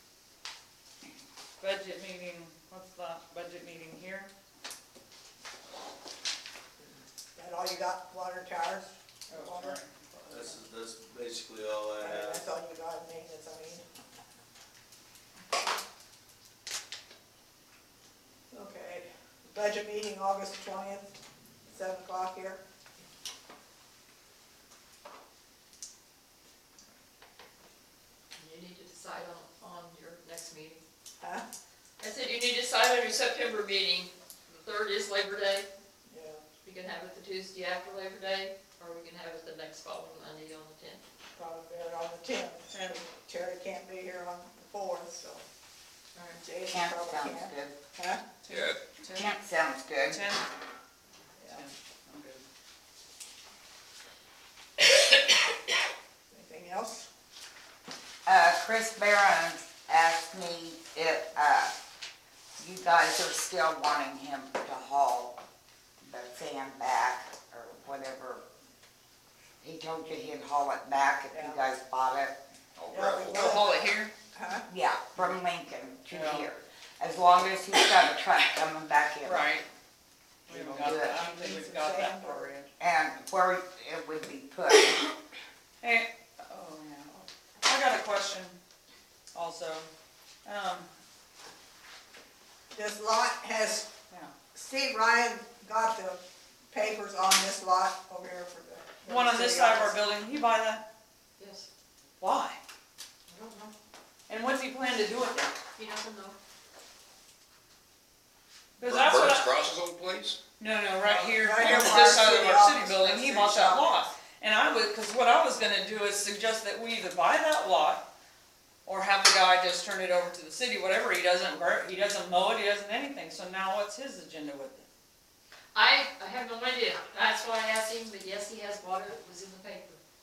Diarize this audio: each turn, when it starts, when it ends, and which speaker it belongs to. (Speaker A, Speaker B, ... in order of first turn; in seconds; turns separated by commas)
Speaker A: 1.6-4.3, Speaker B: 7.3-9.8, Speaker A: 9.3-10.6, Speaker C: 10.2-12.4, Speaker B: 12.0-13.8, Speaker B: 18.5-21.1, Speaker B: 21.7-22.6, Speaker D: 28.4-30.8, Speaker B: 31.2-31.5, Speaker D: 32.0-35.7, Speaker B: 36.1-36.4, Speaker D: 36.6-41.0, Speaker B: 41.4-45.4, Speaker A: 42.7-43.0, Speaker D: 46.1-46.4, Speaker B: 46.4-48.2, Speaker E: 46.7-47.8, Speaker A: 48.5-49.4, Speaker F: 48.5-48.8, Speaker E: 49.1-50.2, Speaker A: 50.1-50.5, Speaker B: 51.4-51.6, Speaker A: 51.5-52.4, Speaker B: 56.3-57.1, Speaker E: 58.3-61.7, Speaker E: 62.6-65.4, Speaker E: 66.0-68.4, Speaker E: 69.6-72.4, Speaker B: 71.3-71.6, Speaker F: 72.8-73.6, Speaker B: 72.9-74.7, Speaker A: 73.3-74.1, Speaker E: 74.7-79.5, Speaker A: 76.1-76.5, Speaker A: 79.2-79.6, Speaker E: 80.5-81.2, Speaker A: 80.5-82.7, Speaker B: 81.1-82.5, Speaker E: 82.8-85.1, Speaker A: 85.8-88.6, Speaker A: 89.3-89.9, Speaker A: 90.5-90.9, Speaker B: 92.7-93.9, Speaker B: 94.5-100.0, Speaker A: 99.0-100.8, Speaker D: 101.4-101.7, Speaker A: 102.2-102.6, Speaker D: 103.3-103.7, Speaker A: 104.3-105.5, Speaker D: 105.8-106.4, Speaker A: 108.8-109.5, Speaker F: 108.8-110.4, Speaker A: 110.6-118.0, Speaker B: 111.2-114.1, Speaker A: 118.8-124.9, Speaker D: 125.7-130.0